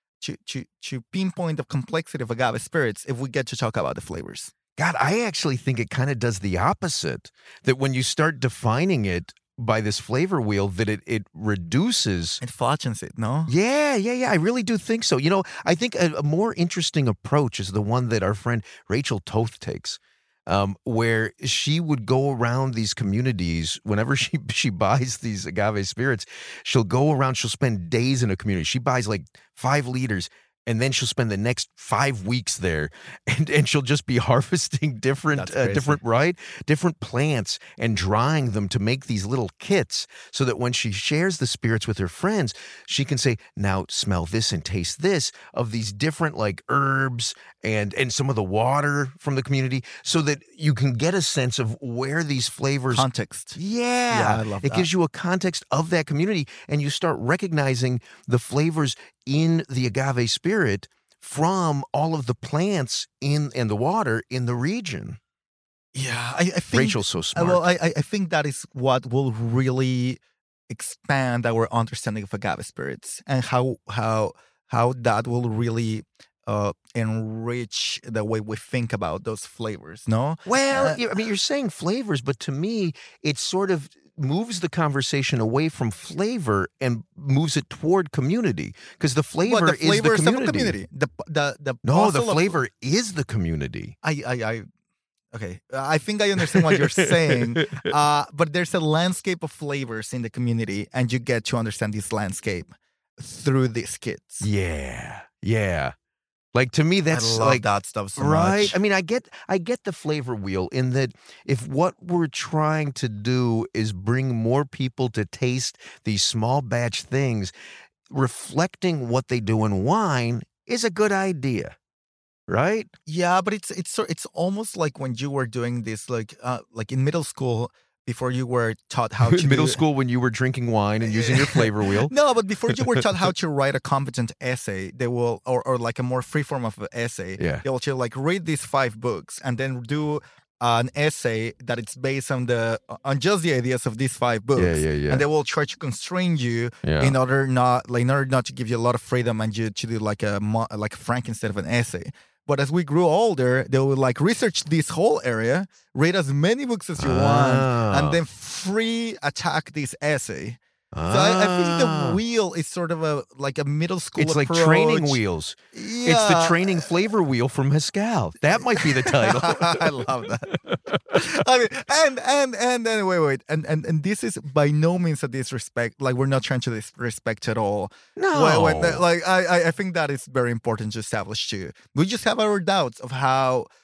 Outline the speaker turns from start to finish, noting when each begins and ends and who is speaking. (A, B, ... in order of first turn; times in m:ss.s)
0:00.2-0:04.5 A
0:04.8-0:12.4 B
0:12.4-0:13.5 A
0:13.5-1:05.2 B
0:35.3-0:36.0 A
0:52.9-0:53.6 A
0:54.1-0:54.9 A
1:05.9-1:21.0 A
1:06.7-1:07.6 B
1:20.4-1:30.8 B
1:29.4-1:32.6 A
1:31.8-1:34.0 B
1:34.0-1:34.6 A
1:35.3-1:44.5 A
1:36.4-1:37.9 B
1:44.4-1:45.9 B
1:46.5-1:47.7 B
1:47.1-1:48.8 A
1:48.2-1:57.5 B
1:58.1-2:01.8 B
2:02.5-2:02.9 B
2:03.0-2:09.8 A
2:09.2-2:12.1 B
2:11.0-2:45.2 A
2:12.7-2:13.2 B
2:17.4-2:17.6 B
2:24.6-2:25.2 B
2:26.8-2:27.2 B
2:37.0-2:38.2 B
2:40.9-2:42.2 B
2:44.2-2:50.8 B
2:45.7-2:46.9 A
2:48.5-3:03.7 A
2:58.2-2:59.0 B